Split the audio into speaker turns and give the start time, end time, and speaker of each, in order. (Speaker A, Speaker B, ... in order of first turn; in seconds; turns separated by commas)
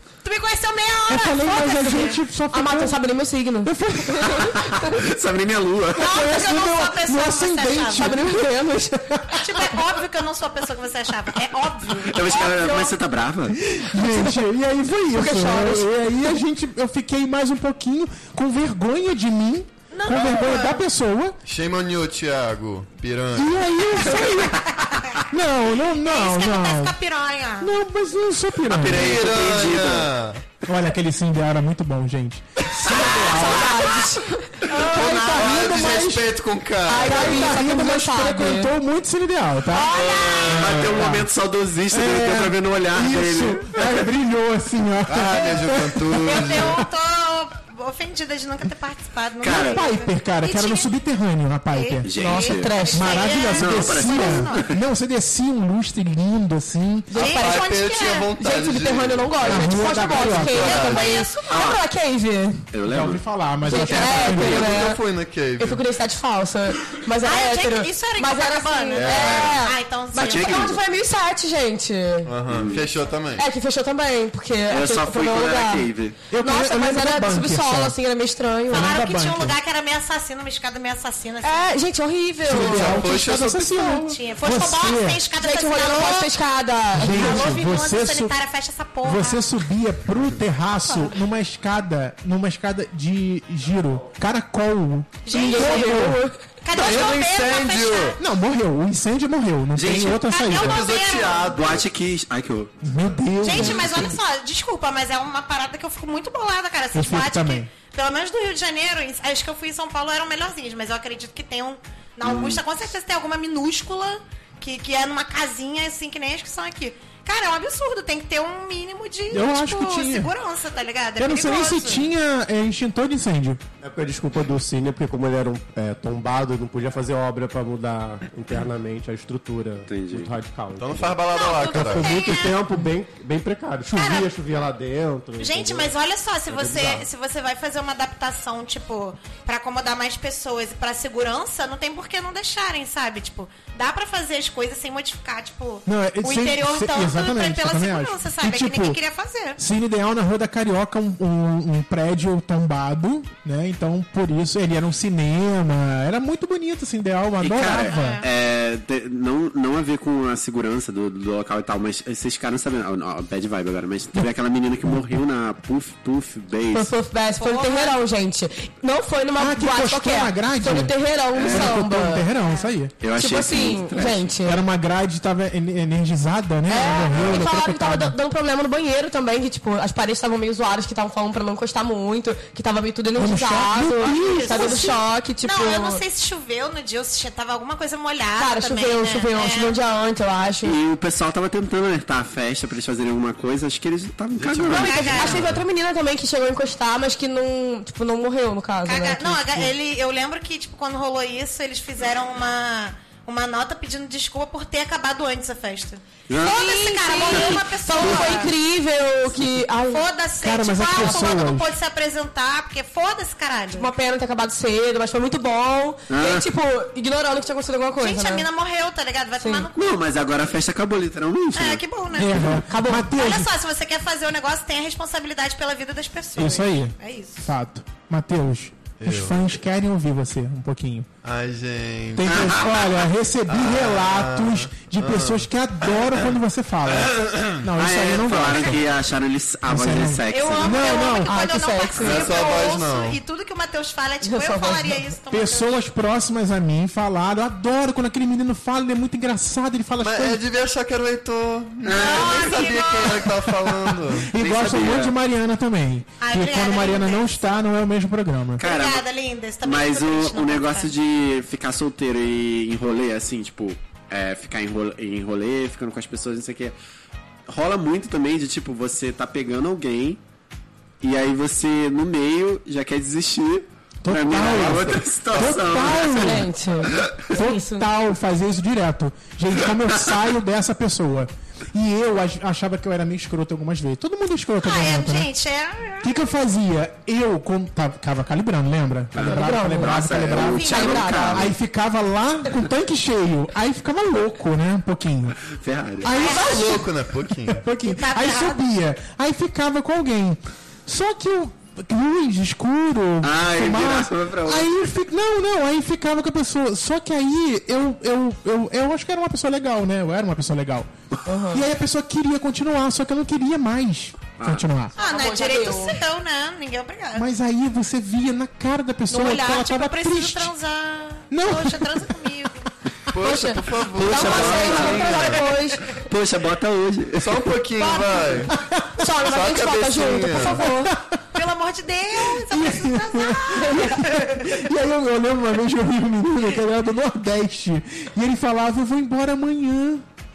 Speaker A: 0.2-2.2, Speaker B: 1.1-3.0, Speaker C: 2.5-5.0, Speaker B: 3.6-4.6, Speaker D: 4.3-6.2, Speaker B: 6.0-9.7, Speaker A: 6.0-8.2, Speaker C: 8.0-9.3, Speaker A: 9.4-13.0, Speaker D: 12.1-13.6, Speaker B: 13.6-21.4, Speaker C: 14.0-14.4, Speaker C: 15.1-16.4, Speaker A: 19.9-20.8, Speaker E: 21.4-23.6, Speaker B: 23.4-24.6, Speaker A: 24.6-25.2, Speaker B: 25.3-26.9, Speaker A: 25.9-27.7, Speaker B: 27.6-29.2, Speaker D: 28.7-30.1, Speaker E: 28.9-30.4, Speaker B: 30.7-33.9, Speaker C: 33.1-34.8, Speaker A: 34.8-35.0, Speaker B: 34.8-36.3, Speaker E: 34.9-37.5, Speaker C: 36.9-38.7, Speaker B: 37.0-41.3, Speaker A: 39.7-40.9, Speaker C: 40.0-40.3, Speaker E: 40.0-40.3, Speaker D: 40.5-43.9, Speaker B: 41.9-46.8, Speaker E: 45.1-46.9, Speaker A: 46.2-50.9, Speaker D: 49.4-49.9, Speaker B: 49.5-52.1, Speaker A: 51.7-54.7, Speaker D: 52.0-52.8, Speaker C: 52.2-53.4, Speaker B: 52.9-57.1, Speaker D: 53.5-54.8, Speaker C: 57.1-57.7, Speaker A: 57.2-58.4, Speaker E: 57.2-61.3, Speaker C: 58.4-62.6, Speaker B: 59.5-60.8, Speaker A: 60.6-61.6, Speaker D: 61.5-61.8, Speaker D: 62.7-64.7, Speaker B: 62.9-64.6, Speaker C: 63.6-65.0, Speaker E: 63.9-65.8, Speaker C: 65.6-72.3, Speaker A: 67.2-70.8, Speaker E: 68.9-69.5, Speaker D: 69.1-69.5, Speaker D: 70.2-70.8, Speaker E: 72.2-73.5, Speaker D: 72.5-72.8, Speaker C: 73.4-79.0, Speaker D: 74.7-76.2, Speaker B: 76.3-78.0, Speaker B: 78.7-79.6, Speaker A: 78.7-81.8, Speaker C: 81.4-83.1, Speaker B: 82.5-85.2, Speaker E: 82.5-84.0, Speaker A: 83.8-86.3, Speaker C: 85.4-87.6, Speaker B: 86.9-88.3, Speaker A: 87.0-89.5, Speaker B: 89.0-96.2, Speaker A: 90.8-91.2, Speaker A: 95.2-96.1, Speaker C: 95.3-96.4, Speaker A: 96.6-98.2, Speaker E: 96.7-98.2, Speaker B: 98.2-100.8, Speaker D: 99.8-100.2, Speaker A: 100.2-101.7, Speaker E: 100.5-101.8, Speaker D: 101.5-102.7, Speaker B: 102.8-104.2, Speaker A: 103.4-122.1, Speaker B: 106.9-107.7, Speaker D: 112.2-112.6, Speaker B: 119.3-120.3, Speaker B: 121.2-123.6, Speaker F: 123.8-135.9, Speaker D: 129.9-130.3, Speaker E: 130.8-132.3, Speaker A: 131.3-132.6, Speaker A: 133.9-134.3, Speaker A: 135.4-149.6, Speaker F: 136.5-137.1, Speaker B: 145.9-149.0, Speaker B: 149.6-158.2, Speaker D: 157.4-166.9, Speaker A: 157.9-158.3, Speaker B: 164.9-165.2, Speaker C: 166.7-172.3, Speaker A: 167.3-168.0, Speaker B: 169.4-172.9, Speaker D: 171.3-171.7, Speaker A: 172.4-172.7, Speaker D: 173.0-174.3, Speaker C: 173.2-174.6, Speaker B: 174.4-178.2, Speaker C: 176.7-186.0, Speaker B: 183.2-184.9, Speaker A: 184.0-189.8, Speaker C: 188.4-190.8, Speaker D: 190.6-195.6, Speaker E: 194.4-194.7, Speaker A: 194.7-195.4, Speaker C: 194.7-199.7, Speaker A: 198.8-208.6, Speaker D: 206.3-206.6, Speaker C: 206.4-210.1, Speaker D: 207.3-208.3, Speaker A: 209.9-213.9, Speaker B: 210.4-211.7, Speaker C: 213.8-218.5, Speaker D: 216.1-216.5, Speaker A: 218.0-220.0, Speaker C: 219.4-219.7, Speaker D: 219.8-221.8, Speaker A: 221.6-222.6, Speaker B: 222.1-223.5, Speaker C: 222.5-223.1, Speaker A: 223.1-227.5, Speaker B: 226.4-231.1, Speaker E: 229.0-229.4, Speaker E: 231.2-232.7, Speaker B: 232.2-238.9, Speaker E: 233.5-235.5, Speaker E: 237.0-237.6, Speaker D: 237.8-241.1, Speaker B: 239.7-241.3, Speaker A: 240.3-245.7, Speaker C: 241.1-242.3, Speaker E: 242.0-243.2, Speaker C: 244.2-245.0, Speaker B: 245.3-250.4, Speaker E: 250.0-254.3, Speaker D: 251.8-252.6, Speaker A: 252.0-253.5, Speaker B: 254.2-258.6, Speaker D: 254.4-255.2, Speaker A: 256.2-257.5, Speaker D: 258.6-259.1, Speaker A: 258.6-260.9, Speaker D: 259.6-266.8, Speaker D: 267.5-270.2, Speaker D: 271.0-276.4, Speaker B: 274.0-276.5, Speaker E: 274.9-275.6, Speaker C: 276.2-277.9, Speaker B: 277.3-285.3, Speaker A: 284.6-286.2, Speaker B: 286.0-295.4, Speaker D: 289.1-291.5, Speaker C: 289.2-291.5, Speaker A: 290.4-291.2, Speaker D: 295.5-296.1, Speaker B: 296.0-296.9, Speaker A: 296.2-296.8, Speaker E: 296.2-297.7, Speaker B: 297.4-310.9, Speaker A: 297.8-298.6, Speaker D: 303.2-304.7, Speaker C: 311.3-311.7, Speaker B: 311.5-314.9, Speaker D: 314.4-314.7, Speaker C: 315.0-316.0, Speaker A: 315.0-317.3, Speaker B: 317.1-320.5, Speaker A: 319.1-322.7, Speaker B: 321.3-322.3, Speaker E: 323.1-325.4, Speaker C: 323.2-325.8, Speaker D: 323.9-327.5, Speaker E: 327.2-328.6, Speaker C: 327.8-328.2, Speaker B: 328.5-329.1, Speaker C: 329.0-330.9, Speaker E: 329.2-330.7, Speaker B: 330.6-331.2, Speaker A: 331.3-334.6, Speaker B: 332.4-340.1